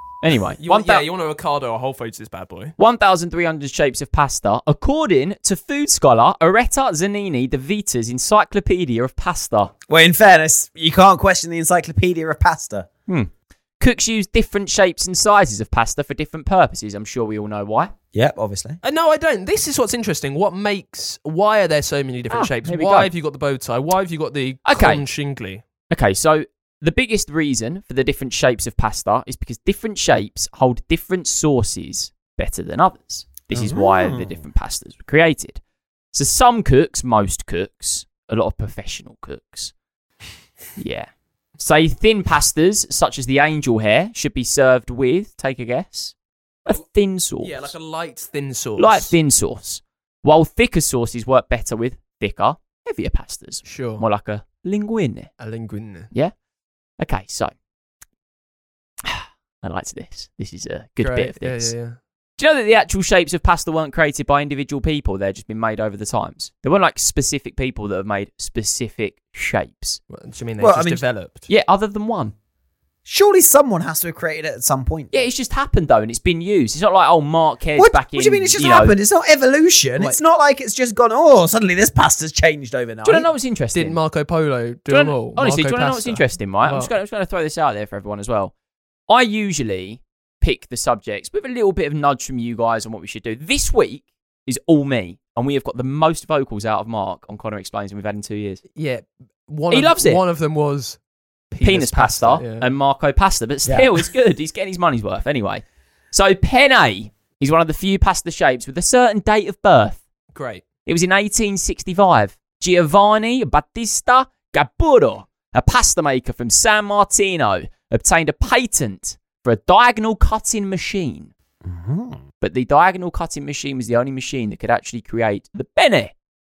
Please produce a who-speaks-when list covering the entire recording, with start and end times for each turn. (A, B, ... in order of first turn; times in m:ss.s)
0:00.2-0:01.0 A
0:00.6-0:02.8 B
0:02.8-0:09.7 A
0:09.9-0:12.9 C
0:13.1-0:17.9 A
0:18.1-0:18.8 C
0:18.8-0:25.6 B
0:22.3-0:23.1 A
0:24.7-0:25.0 A
0:25.9-0:35.6 A
0:33.5-0:34.4 C
0:36.1-0:39.7 A
0:40.8-0:41.1 A
0:41.6-0:46.1 A
0:46.7-0:47.7 A
0:47.4-0:49.2 B
0:48.8-0:55.3 A
0:53.6-0:54.0 B
0:55.4-0:56.1 B
0:57.0-0:57.5 A
0:59.0-1:01.7 A
1:01.0-1:02.0 B
1:02.4-1:10.0 A
1:10.1-1:11.5 B
1:10.6-1:11.0 C
1:11.5-1:12.3 A
1:13.1-1:15.2 C
1:15.1-1:18.9 A
1:17.8-1:23.3 C
1:23.0-1:23.9 A
1:23.7-1:26.9 B
1:24.9-1:28.5 A
1:29.1-1:38.6 A
1:38.7-1:41.0 B
1:39.7-1:40.2 A
1:41.5-1:42.7 B
1:41.6-1:50.0 A
1:43.6-1:43.9 C
1:50.3-1:50.7 B
1:50.8-2:01.3 A
2:01.7-2:02.2 C
2:02.4-2:06.1 A